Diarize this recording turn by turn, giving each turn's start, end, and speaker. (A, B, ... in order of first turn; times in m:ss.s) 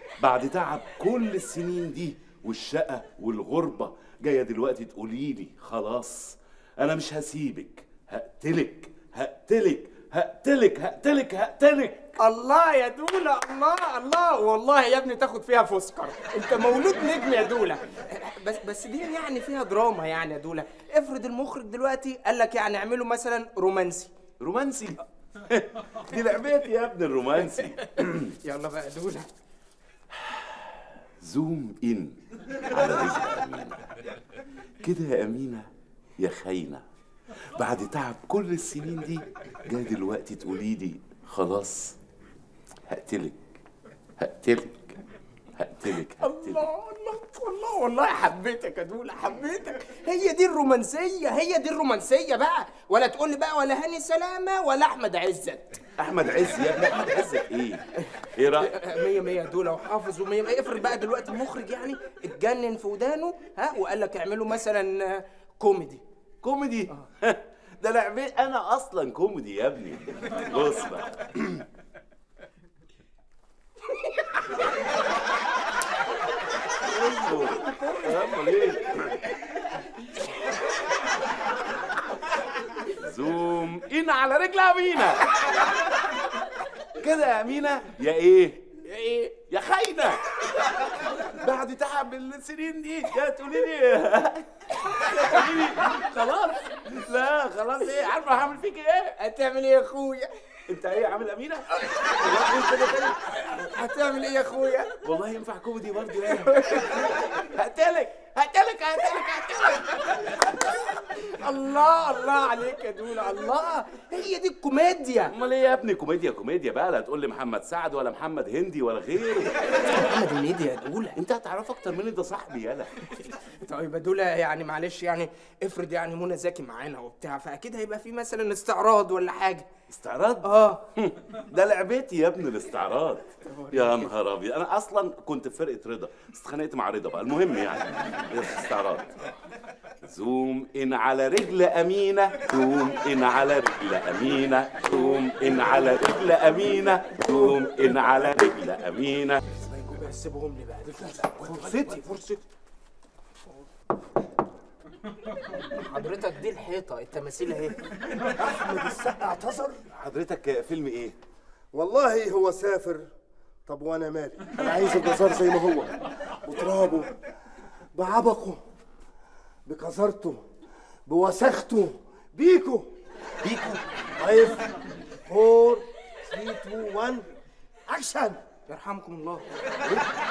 0:00.2-0:12.1 A
0:12.2-0:24.1 B
0:24.4-0:28.3 A
0:27.8-0:29.3 B
0:30.1-0:33.9 A
0:34.8-0:35.7 A
0:36.2-0:36.8 A
0:37.5-0:42.0 A
0:42.9-0:43.4 A
0:44.2-0:45.0 A
0:45.6-0:46.6 A
0:46.2-0:55.8 B
0:56.0-0:57.8 A
0:58.4-0:58.8 A
0:58.6-1:06.0 B
1:06.4-1:11.6 A
1:16.9-1:18.0 B
1:17.0-1:19.2 A
1:22.9-1:25.2 A
1:27.0-1:28.6 A
1:28.8-1:29.3 B
1:29.5-1:39.1 A
1:35.0-1:35.4 B
1:39.2-1:40.3 B
1:40.7-1:43.2 A
1:43.5-1:44.9 B
1:45.0-1:50.3 A
1:46.4-1:46.8 B
1:51.1-1:55.3 B
1:55.3-1:59.6 A
1:59.7-2:01.2 B
2:01.2-2:03.1 A
2:03.5-2:09.7 B
2:09.9-2:19.2 A
2:10.4-2:10.8 B
2:13.4-2:14.1 B
2:20.0-2:29.4 A
2:29.6-2:32.3 B
2:31.4-2:31.8 A
2:35.6-2:37.8 B
2:38.3-2:39.8 C
2:39.9-2:41.2 A
2:41.7-2:43.1 C
2:43.6-2:47.2 C
2:47.9-2:48.6 C
2:49.6-2:50.4 C
2:51.1-2:52.9 C
2:53.4-2:53.8 A
2:54.2-2:54.6 C
2:55.2-2:57.3 C
2:57.9-2:58.4 C
2:58.7-2:59.4 B